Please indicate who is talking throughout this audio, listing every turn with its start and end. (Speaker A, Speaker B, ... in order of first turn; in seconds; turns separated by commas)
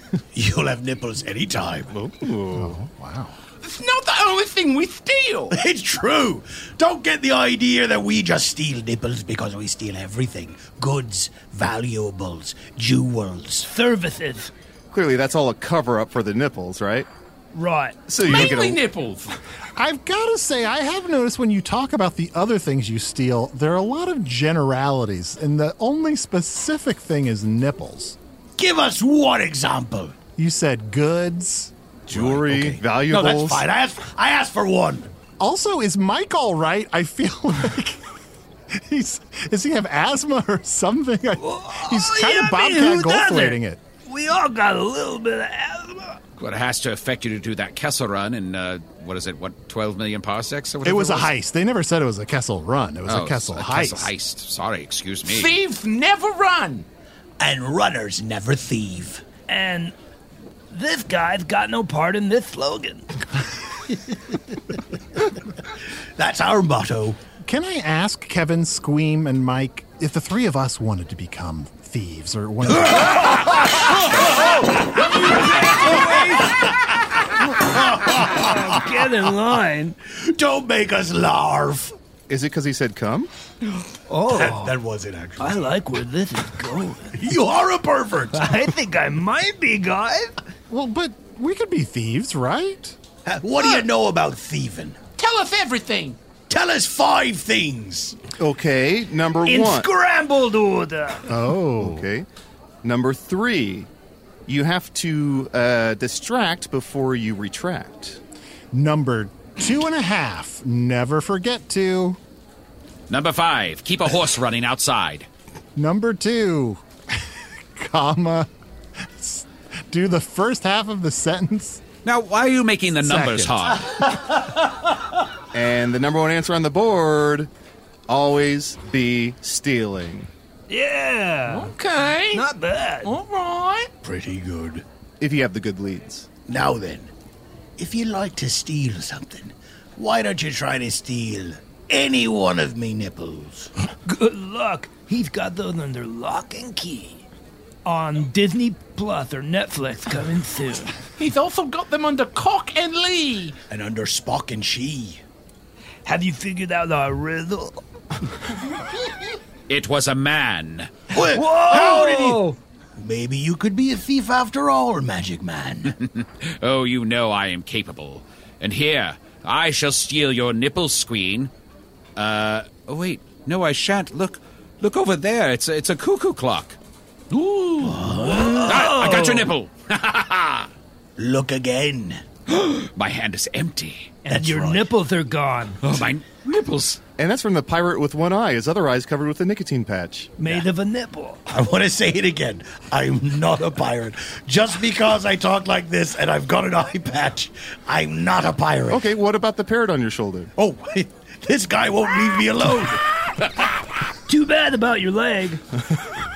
Speaker A: 0.3-1.9, Speaker B: 1.9-2.8, Speaker C: 2.5-3.4, Speaker D: 3.6-5.6, Speaker A: 5.5-13.7, Speaker E: 13.7-14.5, Speaker B: 14.9-17.1, Speaker E: 17.5-18.0, Speaker B: 18.1-18.8, Speaker D: 18.2-19.4, Speaker C: 19.8-28.2, Speaker A: 28.6-30.2, Speaker C: 30.4-32.7, Speaker B: 32.1-33.7, Speaker A: 32.3-35.1, Speaker C: 35.4-38.0, Speaker C: 38.7-43.8, Speaker E: 41.4-46.2, Speaker F: 46.4-51.3, Speaker C: 50.8-54.1, Speaker F: 53.1-55.6, Speaker D: 55.3-56.9, Speaker A: 57.4-59.2, Speaker E: 59.5-59.9, Speaker E: 60.7-63.1, Speaker A: 66.2-67.2, Speaker C: 67.4-73.3, Speaker E: 73.0-80.0, Speaker A: 77.6-78.8, Speaker A: 80.1-81.9, Speaker B: 82.3-83.3, Speaker E: 84.1-84.8, Speaker A: 84.3-85.6, Speaker E: 85.4-87.4, Speaker A: 87.2-88.5, Speaker E: 88.3-90.4, Speaker C: 90.7-93.0, Speaker A: 93.2-95.0, Speaker D: 95.2-96.2, Speaker A: 96.5-98.2, Speaker B: 98.4-99.9, Speaker E: 99.4-101.3, Speaker C: 101.3-102.1, Speaker B: 101.8-102.3, Speaker B: 102.8-103.9, Speaker B: 104.5-108.2, Speaker C: 108.7-112.2, Speaker F: 113.1-115.3, Speaker C: 115.8-118.5, Speaker C: 119.0-121.8, Speaker F: 122.0-123.9, Speaker C: 123.0-123.8, Speaker B: 125.5-127.5, Speaker B: 128.1-130.3, Speaker E: 130.7-131.7, Speaker D: 131.5-132.5, Speaker E: 132.3-133.2, Speaker D: 133.0-133.9, Speaker A: 134.0-134.8, Speaker B: 135.2-136.3, Speaker A: 136.5-137.1, Speaker A: 137.8-143.7, Speaker E: 144.1-147.2, Speaker E: 147.8-150.9, Speaker D: 151.2-153.6, Speaker A: 153.7-155.2, Speaker E: 156.1-157.8, Speaker F: 159.7-160.9, Speaker A: 161.1-166.0, Speaker E: 161.2-162.6, Speaker F: 165.9-171.5, Speaker F: 172.2-176.8, Speaker F: 177.3-177.9, Speaker A: 177.8-178.9, Speaker E: 178.1-179.5, Speaker F: 178.5-180.7, Speaker A: 181.2-182.2, Speaker F: 182.5-184.1, Speaker E: 184.2-185.8, Speaker A: 184.3-184.9, Speaker F: 185.8-187.0, Speaker B: 187.2-190.3, Speaker E: 190.4-191.4, Speaker A: 191.5-199.1, Speaker B: 198.9-200.5, Speaker A: 200.6-203.0, Speaker E: 204.3-205.6